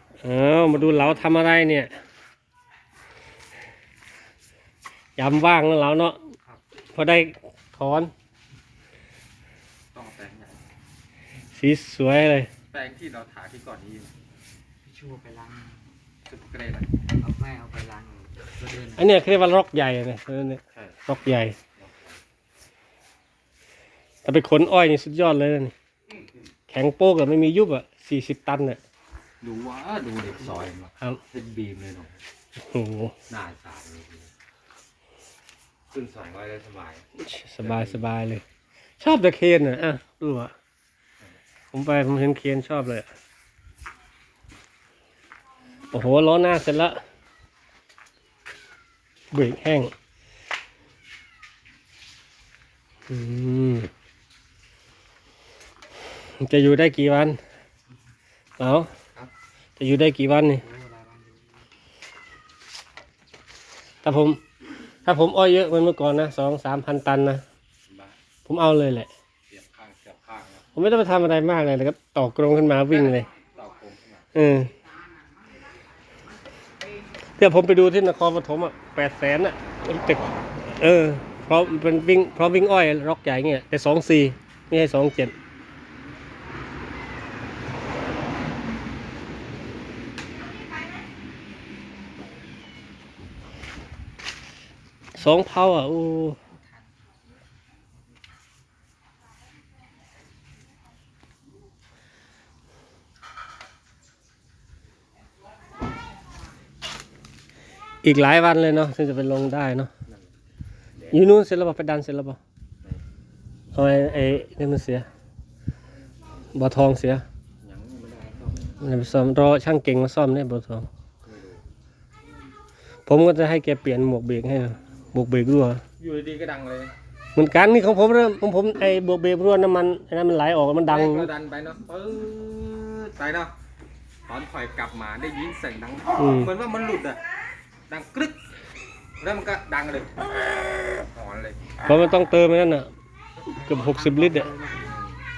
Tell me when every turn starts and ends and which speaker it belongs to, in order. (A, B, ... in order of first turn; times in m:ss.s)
0:00.2-0:01.9 A
0:00.9-0:01.2 B
0:05.2-0:06.2 A
0:07.0-0:08.1 A
0:09.9-0:10.6 B
0:11.5-0:12.5 A
0:12.7-0:14.1 B
0:14.8-0:15.9 C
0:16.3-0:16.9 B
0:17.1-0:19.1 C
0:19.0-0:21.6 A
0:21.8-0:22.2 B
0:24.2-0:25.7 A
0:26.7-0:28.8 A
0:29.4-0:32.2 B
0:32.7-0:33.1 A
0:33.3-0:34.3 B
0:35.9-0:37.0 B
0:37.2-0:38.4 A
0:37.6-0:38.0 B
0:39.0-0:40.5 A
0:41.7-0:43.1 A
0:45.9-0:47.0 A
0:49.3-0:49.9 A
0:53.1-0:53.9 A
0:56.4-0:57.4 A
0:58.6-0:58.9 A
0:59.8-1:00.6 A
1:00.6-1:01.6 C
1:04.0-1:04.4 A
1:05.0-1:07.4 A
1:07.9-1:08.2 B
1:08.5-1:09.1 A
1:09.5-1:10.6 B
1:10.8-1:13.3 A
1:13.5-1:14.3 B
1:14.4-1:14.7 A
1:17.4-1:25.3 A
1:35.2-1:36.4 A
1:48.0-1:49.9 A
1:51.0-1:51.3 B
1:51.1-1:52.4 A
1:53.7-1:55.1 A
1:56.6-1:57.2 A
1:57.6-1:59.0 B
1:58.8-2:00.9 A
2:01.2-2:01.6 B
2:03.1-2:05.8 A
2:06.0-2:06.9 B
2:07.4-2:11.3 A
2:10.9-2:13.5 B
2:14.3-2:17.2 B
2:16.2-2:16.5 A
2:17.9-2:18.4 B
2:19.2-2:20.2 B
2:20.8-2:21.8 B
2:21.8-2:22.9 A
2:23.4-2:25.0 C
2:23.7-2:24.5 A
2:24.8-2:25.1 B